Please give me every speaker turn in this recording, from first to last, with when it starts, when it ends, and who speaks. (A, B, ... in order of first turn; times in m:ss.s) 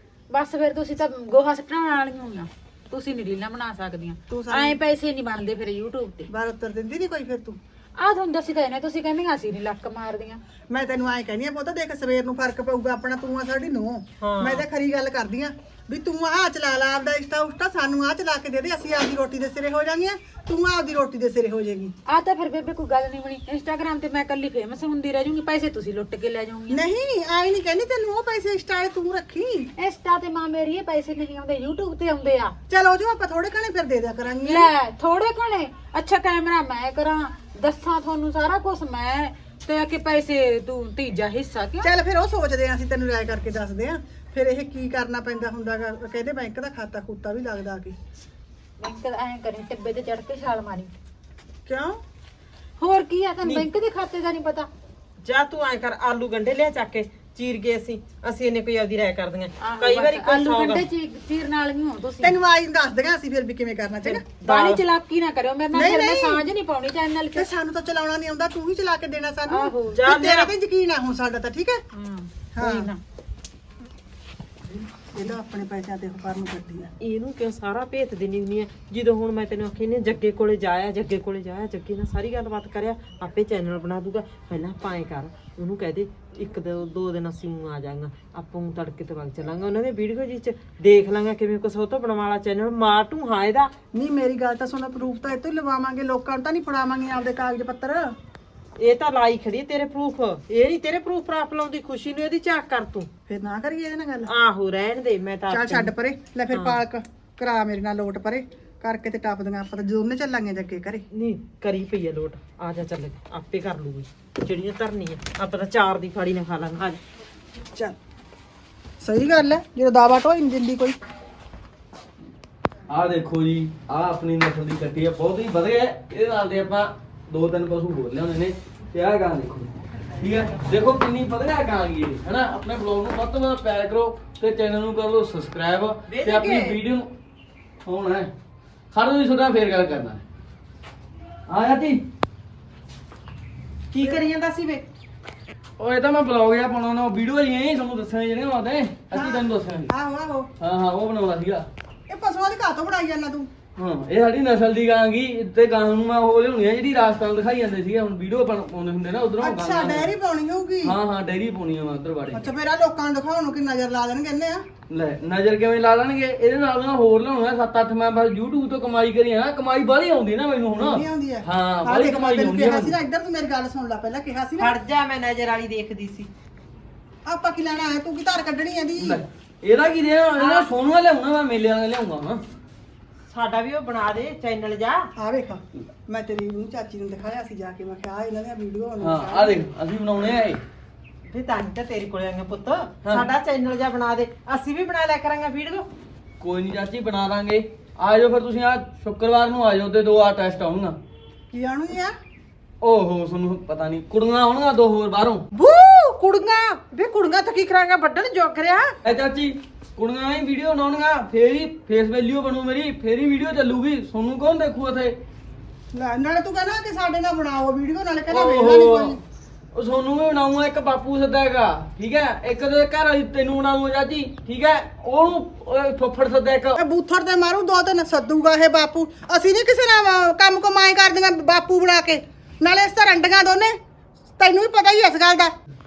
0:00.3-0:06.3 A
0:04.3-0:04.8 B
0:06.3-0:07.6 B
0:08.0-0:10.4 A
0:10.7-0:21.9 B
0:14.2-0:14.6 C
0:22.1-0:26.8 A
0:26.7-0:29.7 B
0:29.8-0:32.6 A
0:32.7-0:34.7 B
0:34.4-0:41.9 A
0:41.8-0:48.0 B
0:48.8-0:50.9 A
0:51.6-0:52.0 B
0:52.8-0:54.7 A
0:55.2-1:00.8 C
0:59.6-1:02.4 A
1:02.2-1:04.3 B
1:04.0-1:04.8 C
1:04.4-1:07.5 A
1:05.7-1:06.4 B
1:07.3-1:11.8 B
1:09.5-1:10.0 A
1:09.9-1:10.5 C
1:11.9-1:13.0 A
1:12.5-1:12.9 B
1:14.7-1:16.9 B
1:17.0-1:33.7 C
1:33.9-1:38.2 B
1:38.8-1:43.1 C
1:43.3-1:44.3 B
1:44.3-1:45.9 C
1:45.5-1:51.1 B
1:46.5-1:46.8 C
1:51.1-1:57.0 C
1:59.0-2:01.0 B
2:02.9-2:17.1 D
2:16.1-2:16.8 C
2:17.8-2:18.3 D
2:18.9-2:20.2 D
2:21.5-2:22.0 D
2:23.9-2:24.9 C
2:25.8-2:29.9 D
2:29.1-2:30.5 B
2:30.6-2:31.7 D
2:32.1-2:33.5 B
2:33.8-2:40.1 D
2:39.4-2:41.0 B
2:40.8-2:42.5 D
2:42.3-2:44.6 B
2:44.9-2:52.9 D
2:50.8-2:54.8 B
2:54.6-2:56.3 C
2:57.2-2:59.2 B
2:59.0-3:02.4 D
3:00.4-3:00.7 C
3:03.3-3:05.1 C
3:05.1-3:09.6 B
3:09.0-3:10.6 D
3:11.3-3:15.9 C
3:16.4-3:21.0 D
3:21.5-3:22.2 B
3:22.8-3:25.4 D
3:25.5-3:29.0 C
3:29.0-3:35.1 D
3:35.9-3:39.2 B
3:38.3-3:39.2 D
3:39.7-3:46.8 D
3:46.8-3:53.8 B
3:54.4-3:55.5 B